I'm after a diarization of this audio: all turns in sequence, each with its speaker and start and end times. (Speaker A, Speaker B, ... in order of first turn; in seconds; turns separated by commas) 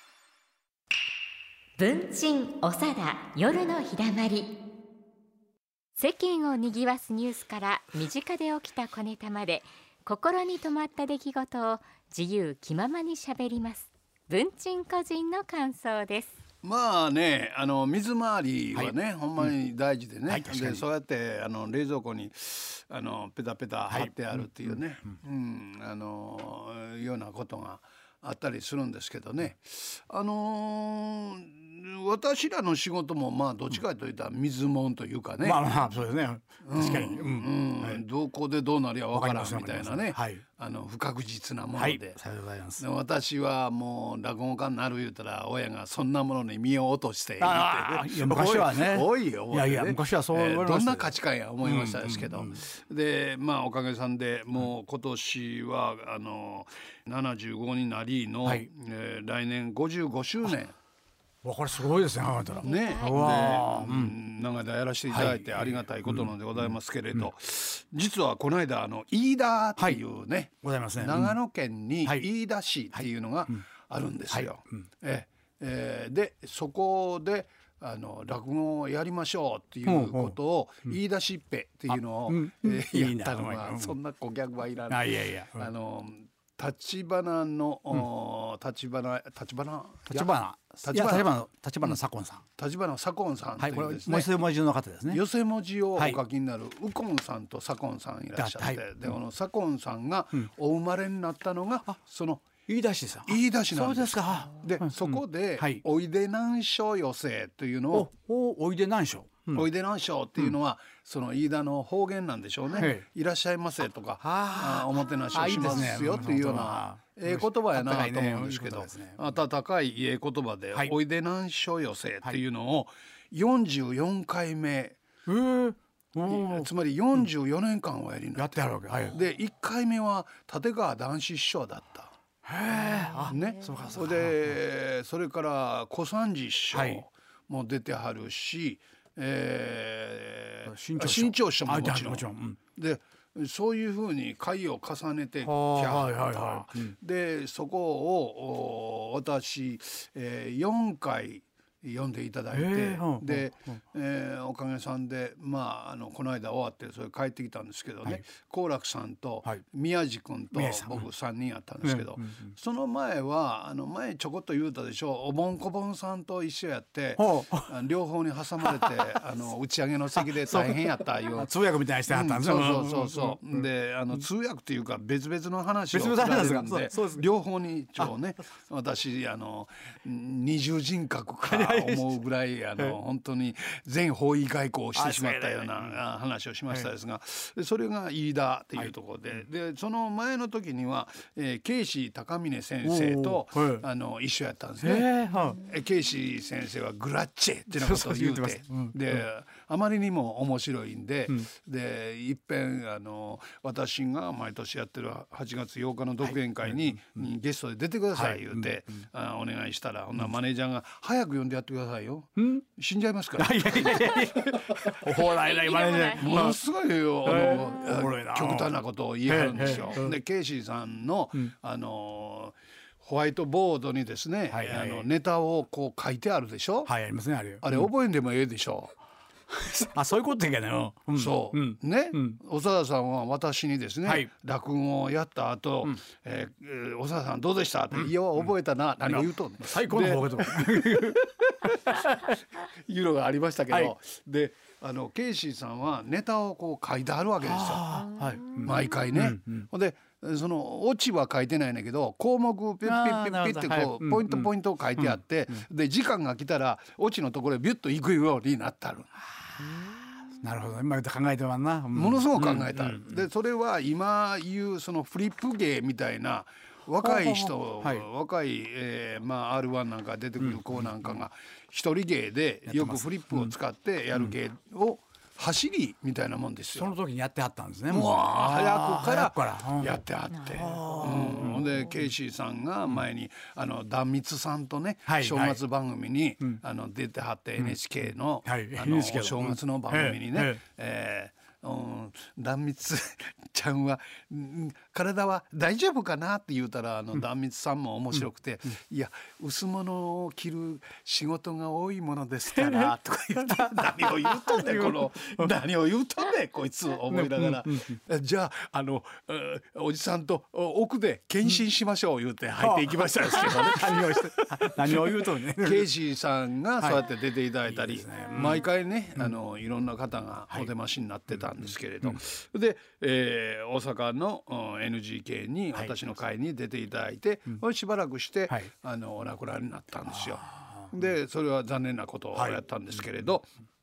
Speaker A: 1.8-4.5, Speaker A: 6.0-16.3, Speaker B: 16.6-35.6, Speaker C: 18.7-19.5, Speaker C: 20.3-20.8, Speaker C: 23.9-24.8, Speaker C: 35.4-38.0, Speaker B: 36.6-42.2, Speaker C: 39.1-40.4, Speaker C: 41.7-42.8, Speaker B: 42.8-60.7, Speaker C: 47.4-52.6, Speaker C: 61.4-64.1, Speaker A: 62.5-63.4, Speaker B: 62.6-92.0, Speaker C: 65.1-67.2, Speaker C: 70.6-71.3, Speaker C: 72.9-73.5, Speaker C: 74.3-74.8, Speaker C: 79.8-81.0, Speaker C: 81.9-84.0, Speaker C: 84.9-85.7, Speaker C: 90.1-92.4, Speaker B: 92.6-94.4, Speaker C: 93.6-95.2, Speaker B: 95.1-102.4, Speaker C: 98.3-99.2, Speaker C: 102.7-105.8, Speaker B: 103.2-108.1, Speaker C: 107.9-109.7, Speaker B: 109.5-125.0, Speaker C: 112.8-113.0, Speaker C: 114.2-119.4, Speaker C: 125.3-127.3, Speaker B: 126.2-132.1, Speaker C: 128.3-129.2, Speaker C: 132.4-134.6, Speaker A: 132.9-133.5, Speaker B: 133.3-171.5, Speaker C: 136.7-137.0, Speaker C: 140.6-142.6, Speaker C: 145.4-146.9, Speaker C: 152.5-153.8, Speaker C: 160.5-161.1, Speaker C: 161.8-162.5, Speaker C: 167.2-167.7, Speaker C: 168.6-168.9, Speaker C: 170.2-174.2, Speaker B: 172.1-214.2, Speaker C: 175.9-177.3, Speaker C: 181.4-182.2, Speaker C: 184.9-186.0, Speaker C: 188.8-189.4, Speaker C: 192.8-193.8, Speaker C: 194.8-195.6, Speaker C: 197.7-199.3, Speaker C: 206.2-207.2, Speaker C: 208.1-209.0, Speaker C: 212.4-212.6, Speaker C: 213.4-216.6, Speaker A: 215.2-216.4, Speaker B: 216.2-226.9, Speaker C: 217.2-220.2, Speaker C: 224.5-225.1, Speaker C: 226.8-227.9, Speaker B: 227.6-228.9, Speaker C: 229.5-232.4, Speaker B: 231.1-241.2, Speaker C: 234.0-234.3, Speaker C: 237.9-238.5, Speaker C: 239.0-242.2, Speaker B: 241.9-248.1, Speaker C: 247.4-249.7, Speaker B: 248.6-259.2, Speaker C: 252.8-255.6, Speaker C: 259.9-263.2, Speaker B: 261.9-276.9, Speaker C: 267.0-268.1, Speaker C: 270.4-271.2, Speaker C: 272.7-273.5, Speaker C: 276.7-280.0, Speaker B: 277.9-333.5, Speaker A: 280.3-281.0, Speaker C: 280.5-282.0, Speaker C: 285.1-285.6, Speaker C: 288.4-290.6, Speaker C: 302.5-305.5, Speaker C: 307.1-308.0, Speaker C: 312.6-315.9, Speaker C: 316.8-317.1, Speaker C: 317.6-319.3, Speaker C: 325.7-326.1, Speaker C: 330.1-330.9, Speaker C: 332.3-333.0